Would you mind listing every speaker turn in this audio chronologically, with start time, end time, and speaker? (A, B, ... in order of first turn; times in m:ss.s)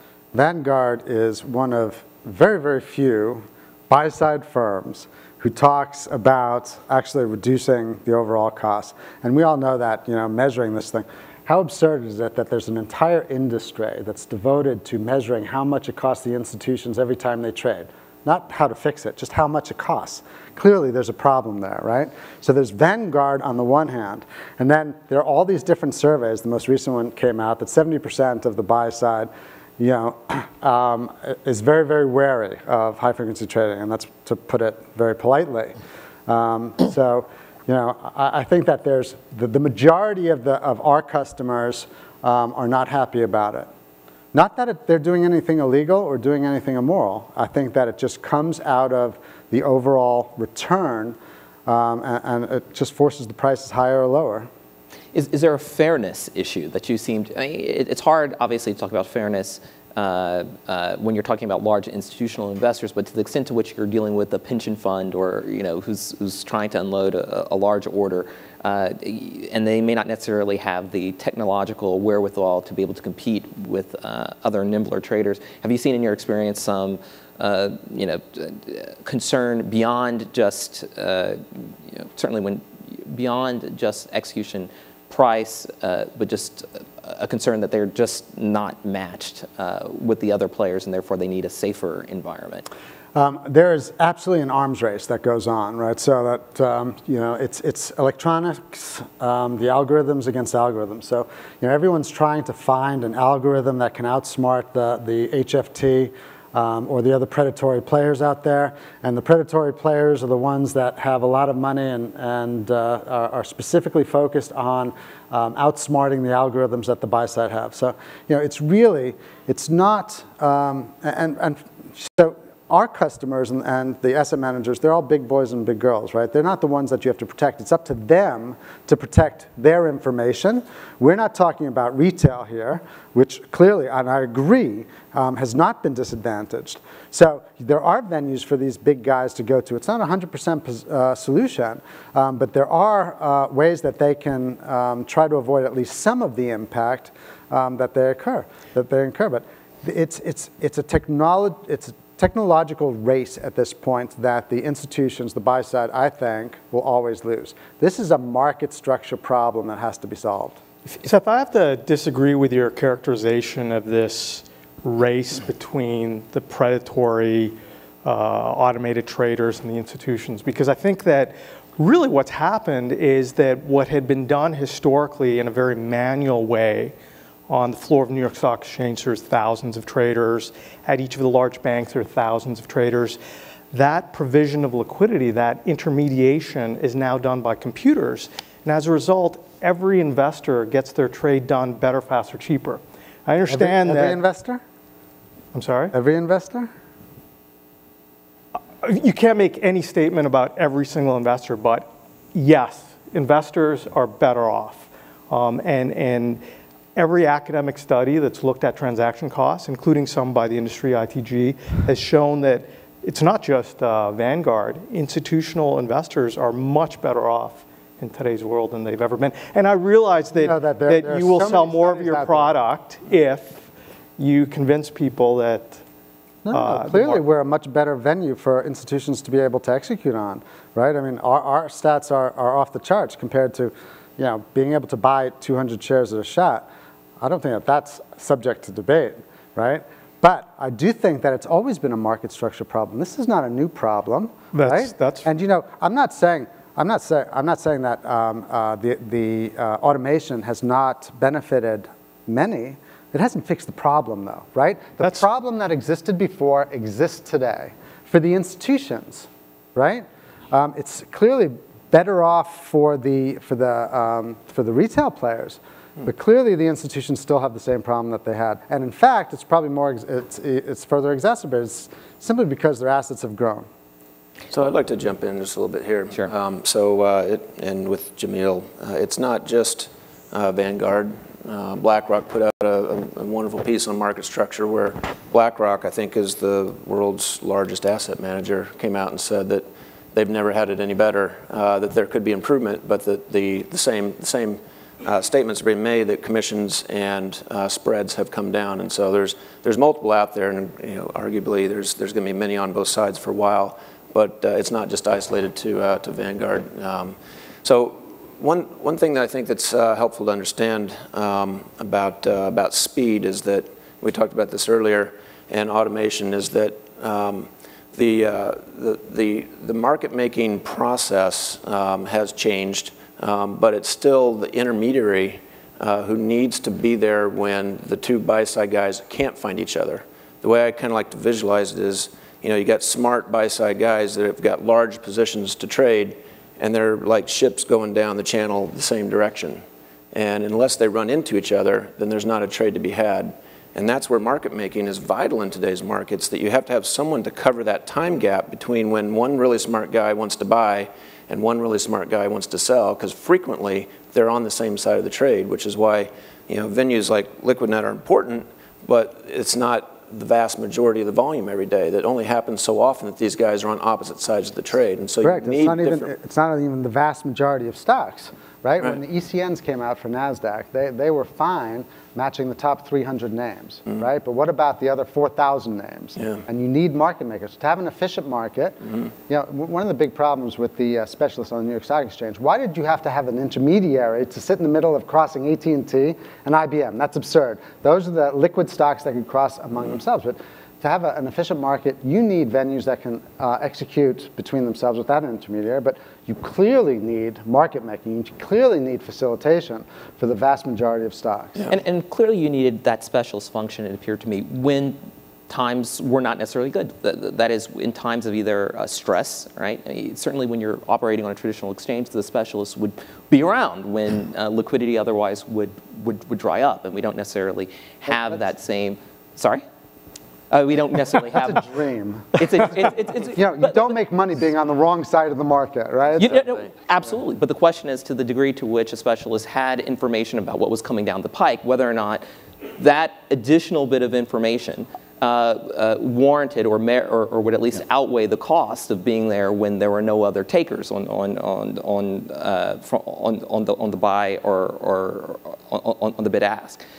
0:00.3-0:35.7 A
0:36.3-0:43.7 A
0:44.3-0:54.5 A
0:55.1-1:32.6 B
1:33.1-2:40.6 A
2:40.9-2:56.9 C
2:57.5-3:03.2 C
3:03.7-3:14.2 C
3:13.5-3:14.6 A
3:15.5-3:15.9 C
3:15.9-3:16.7 A
3:18.8-3:26.4 C
3:26.9-3:43.7 C
3:40.4-3:42.5 A
3:44.2-3:45.8 C
3:46.4-3:56.7 A
3:46.5-3:47.2 C
3:57.2-4:33.6 A
4:04.5-4:05.3 C
4:34.5-6:06.1 D
6:05.2-6:41.6 A
6:41.7-6:59.6 B
7:00.5-7:01.6 B
7:01.3-7:02.6 A
7:02.3-7:03.9 B
7:03.3-7:06.6 A
7:06.2-7:12.2 B
7:12.8-7:26.8 B